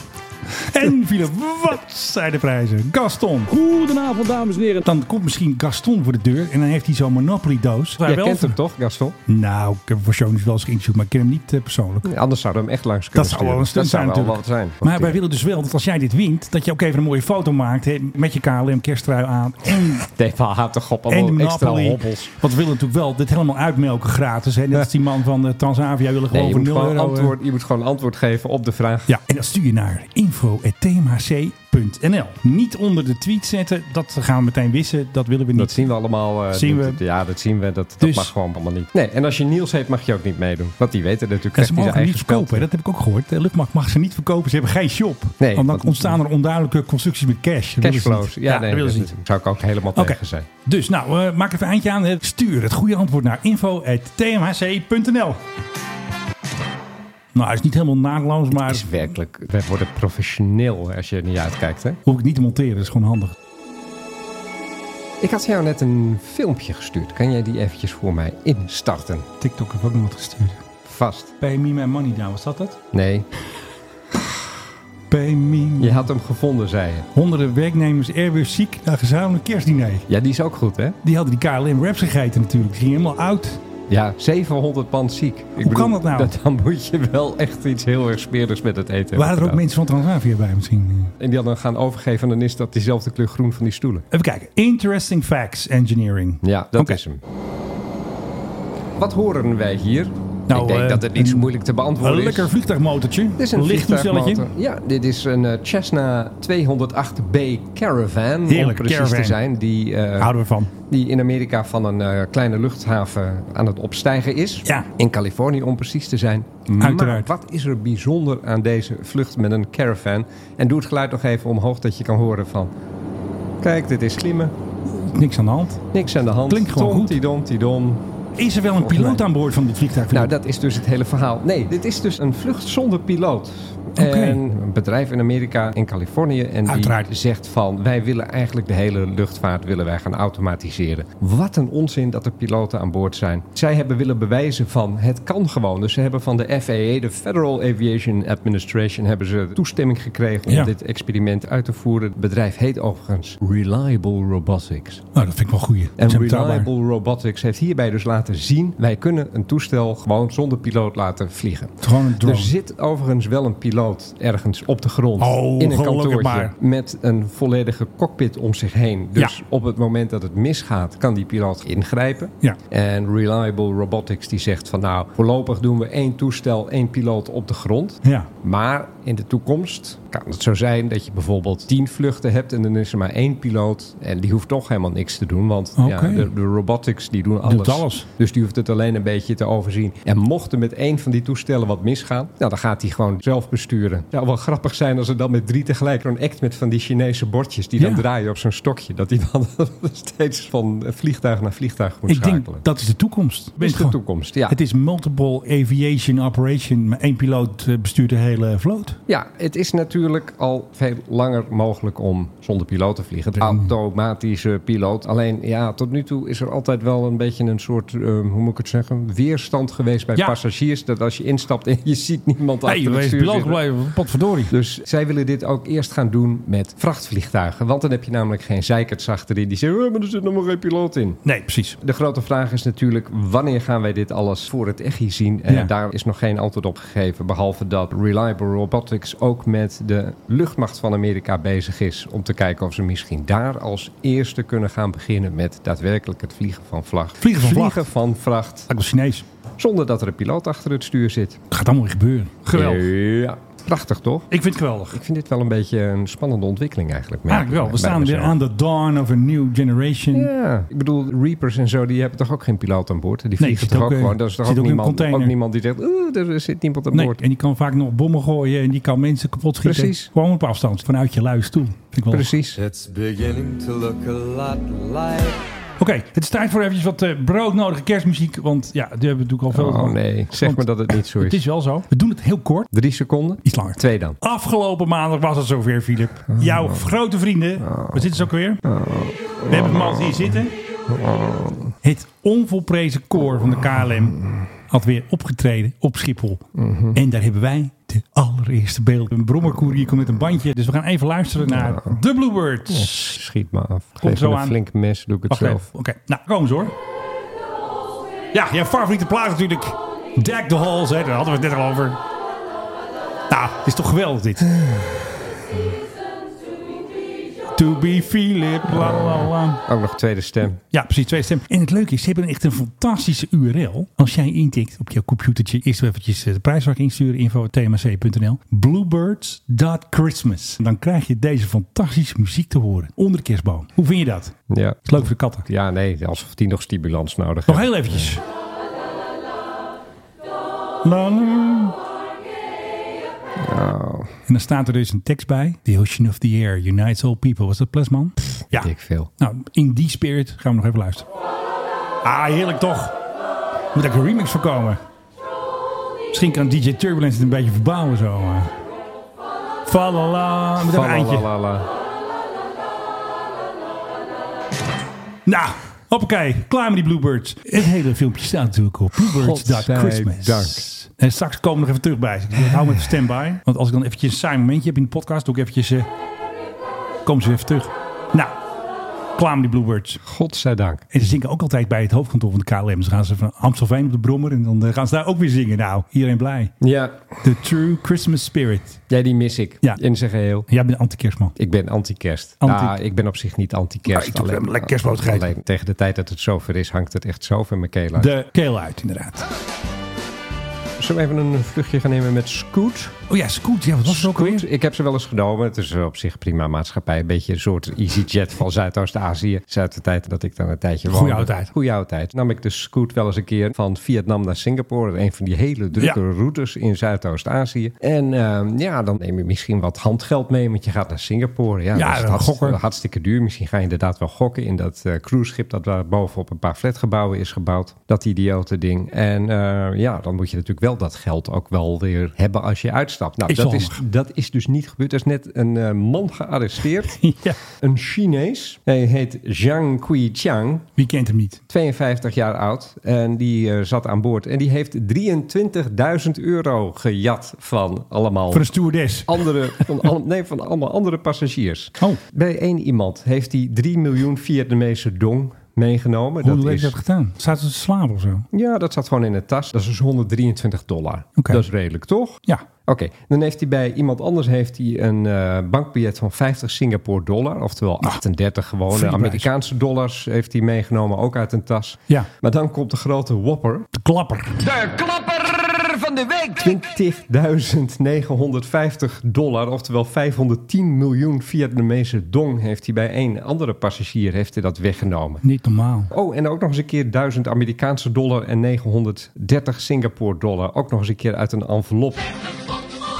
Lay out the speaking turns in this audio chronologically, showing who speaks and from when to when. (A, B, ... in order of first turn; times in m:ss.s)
0:00.5-0:08.6 A
0:08.0-0:09.2 B
0:09.3-0:12.1 A
0:12.0-0:15.2 B
0:13.1-0:20.1 A
0:20.0-0:22.3 B
0:21.1-0:27.3 A
0:26.3-0:29.2 B
0:29.1-0:35.9 A
0:35.5-0:42.7 B
0:36.5-0:37.0 A
0:38.0-0:38.3 A
0:41.6-0:49.1 A
0:45.4-0:46.2 B
0:47.8-0:50.5 B
0:50.0-0:55.4 A
0:57.3-0:58.9 A
0:58.5-1:02.0 B
1:02.0-1:03.3 A
1:05.2-1:09.3 B
1:09.4-1:10.6 A
1:10.8-1:11.3 B
1:11.4-1:12.8 A
1:12.9-1:13.3 B
1:15.1-1:16.1 A
1:15.8-1:17.1 B
1:17.1-1:20.0 A
1:20.1-1:21.0 B
1:21.0-1:23.6 A
1:23.9-1:29.6 B
1:25.6-1:26.3 A
1:29.1-1:31.1 A
1:31.2-1:34.0 B
1:34.1-1:37.0 A
1:36.4-1:37.2 B
1:39.0-1:42.5 B
1:40.5-1:44.5 A
1:43.4-2:02.7 B
1:48.5-1:49.4 A
1:50.2-1:50.7 A
1:56.8-1:57.3 A
2:03.6-2:04.5 B
2:04.8-2:05.8 A
2:05.9-2:08.0 B
2:06.5-2:07.2 A
2:08.4-2:10.3 A
2:08.8-2:09.2 B
2:10.1-2:35.0 B
2:14.0-2:14.4 A
2:16.6-2:17.1 A
2:30.5-2:30.7 A
2:35.1-2:36.7 A
2:36.0-3:22.6 B
2:41.8-2:42.5 A
2:45.2-2:46.5 A
2:58.0-2:58.3 A
3:05.8-3:06.3 A
3:07.4-3:08.0 A
3:17.8-3:18.0 A
3:22.1-3:29.0 A
3:23.6-3:24.6 B
3:29.1-3:43.6 B
3:33.4-3:33.7 A
3:42.6-3:44.5 A
3:44.5-3:51.2 B
3:51.2-3:51.8 A
3:51.8-4:08.7 B
4:07.2-4:07.9 A
4:08.7-4:09.2 A
4:09.6-4:11.4 B
4:11.5-4:12.9 A
4:12.5-4:14.3 B
4:14.3-4:15.0 A
4:14.9-4:18.4 B
4:17.3-4:20.3 A
4:20.1-4:27.2 B
4:23.4-4:25.3 A
4:26.9-4:32.3 A
4:29.6-4:30.1 B
4:32.1-4:32.6 B
4:32.5-4:35.4 C
4:35.8-4:42.7 A
4:39.5-4:41.4 B
4:42.7-4:44.2 B
4:43.4-4:48.6 A
4:46.3-4:46.8 B
4:47.6-4:48.1 B
4:48.6-4:50.4 B
4:49.5-4:50.5 A
4:50.9-4:51.7 B
4:51.8-5:03.1 A
4:56.5-4:57.0 B
5:01.4-5:02.0 B
5:02.7-5:05.6 B
5:04.0-5:04.6 A
5:05.3-5:06.7 A
5:08.3-5:12.0 A
5:13.3-5:14.5 A
5:14.4-5:15.1 B
5:17.5-5:19.6 A
5:18.7-5:20.6 B
5:20.7-5:35.4 A
5:34.5-5:38.2 B
5:37.5-5:38.2 A
5:40.8-5:41.8 A
5:43.4-5:44.1 B
5:44.3-5:51.0 A
5:48.5-5:49.1 B
5:52.0-5:53.0 A
5:53.7-5:54.8 A
5:56.1-5:58.6 A
5:59.6-6:01.3 A
6:00.6-6:01.7 B
6:05.2-6:15.9 A
6:09.0-6:10.6 B
6:17.0-6:18.3 A
6:19.2-6:20.0 A
6:20.0-6:20.8 B
6:20.9-6:26.5 A
6:26.6-6:27.1 B
6:27.2-6:28.8 A
6:28.9-6:30.5 B
6:30.5-6:31.3 A
6:31.4-6:38.1 B
6:32.4-6:32.8 A
6:33.9-6:35.3 A
6:38.0-6:39.2 A
6:40.8-6:43.0 B
6:43.1-6:44.4 A
6:43.8-7:20.7 B
6:50.9-6:51.5 A
7:01.7-7:02.6 A
7:13.3-7:13.8 A
7:17.0-7:17.4 A
7:20.8-7:21.4 A
7:21.5-7:28.5 B
7:28.3-7:29.6 A
7:29.0-7:36.8 B
7:36.2-7:38.2 A
7:38.3-7:53.7 B
7:41.2-7:41.4 A
7:48.7-7:49.3 A
7:53.7-7:54.4 A
7:54.5-7:56.4 C
7:56.4-8:05.2 B
8:05.2-8:05.9 A
8:05.9-8:12.1 B